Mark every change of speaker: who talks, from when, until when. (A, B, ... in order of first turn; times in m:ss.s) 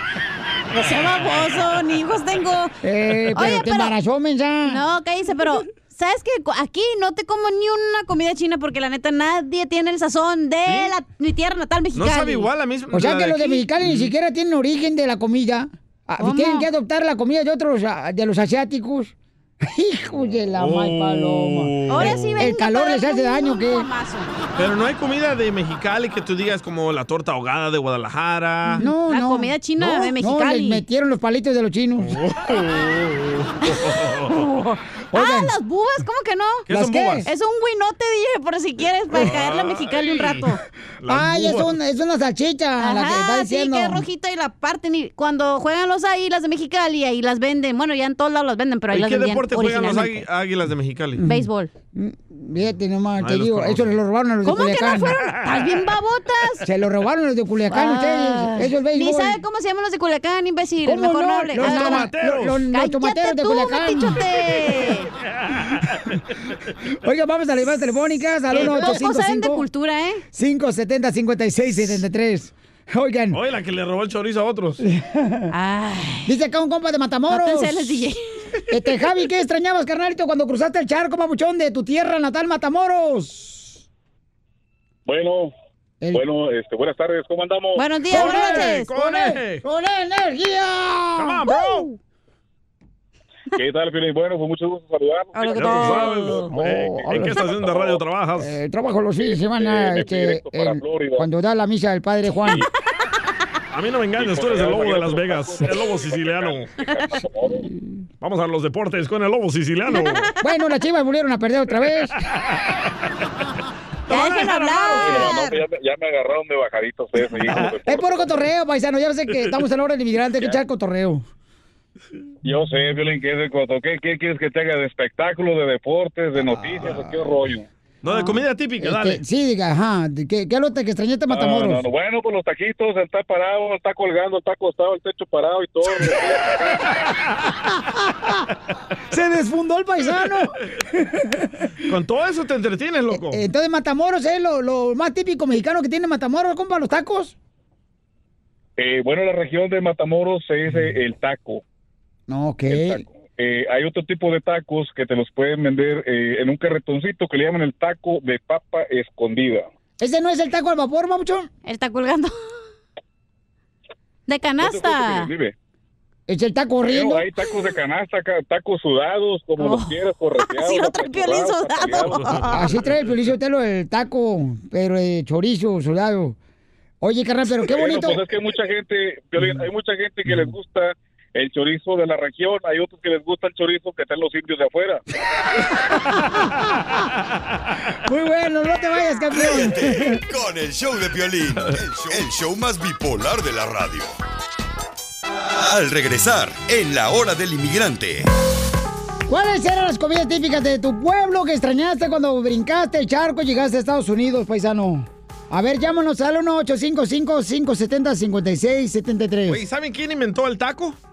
0:00.7-0:02.8 A
0:02.8-0:04.8 B
0:03.3-0:03.9 A
0:04.6-0:12.5 A
0:10.6-0:10.9 C
0:11.9-0:14.1 C
0:12.9-0:23.9 B
0:16.2-0:16.7 A
0:20.5-0:22.4 C
0:21.9-0:24.3 A
0:24.6-0:28.8 C
0:28.7-0:30.8 A
0:28.8-0:32.2 B
0:32.0-0:34.3 C
0:34.0-0:36.7 A
0:35.1-0:35.5 B
0:36.7-0:37.2 C
0:36.7-0:37.3 B
0:37.2-0:40.6 A
0:39.1-0:41.7 C
0:41.1-0:44.0 B
0:42.8-0:50.3 A
0:48.9-0:51.2 C
0:51.2-0:51.7 A
0:51.9-0:55.1 B
0:53.2-0:53.9 C
0:54.4-0:56.6 A
0:56.6-0:59.4 B
0:57.7-1:02.1 A
1:00.8-1:04.2 B
1:01.5-1:02.6 C
1:02.7-1:05.1 A
1:07.0-1:09.6 B
1:08.5-1:10.2 A
1:10.3-1:13.4 B
1:13.3-1:14.8 C
1:15.0-1:15.4 B
1:15.5-1:16.3 A
1:16.2-1:17.9 B
1:17.3-1:18.2 A
1:18.7-1:23.8 B
1:25.0-1:25.5 D
1:26.1-1:27.8 D
1:27.8-1:28.9 A
1:28.1-1:29.6 C
1:28.1-1:31.4 B
1:31.2-1:31.9 C
1:31.4-1:32.0 A
1:33.5-1:36.3 D
1:35.3-1:36.5 A
1:35.5-1:38.5 C
1:36.5-1:37.4 B
1:38.4-1:42.6 B
1:39.2-1:41.3 D
1:43.7-1:46.7 C
1:44.2-1:47.6 D
1:48.2-1:50.3 C
1:49.9-1:50.3 A
1:50.4-1:52.2 B
1:54.1-1:55.3 C
1:54.1-1:55.6 A
1:55.0-1:58.3 D
1:57.8-2:01.2 B
2:02.4-2:07.7 D
2:08.0-2:09.2 C
2:08.8-2:11.9 B
2:11.3-2:16.8 D
2:19.1-2:20.5 B
2:21.9-2:23.4 C
2:23.3-2:27.3 B
2:28.8-2:31.6 D
2:32.3-2:33.0 B
2:32.7-2:39.7 D
2:40.0-2:41.5 B
2:41.6-2:42.3 A
2:44.3-2:45.3 A
2:44.6-2:45.5 D
2:46.3-2:47.3 B
2:46.8-2:52.2 D
2:49.6-2:52.7 A
2:52.1-2:52.8 C
2:52.5-2:56.4 B
2:57.0-2:58.2 B
2:57.7-3:05.0 D
3:08.0-3:10.2 B
3:09.3-3:14.2 E
3:15.4-3:18.3 E
3:19.3-3:29.6 B
3:29.5-3:31.0 C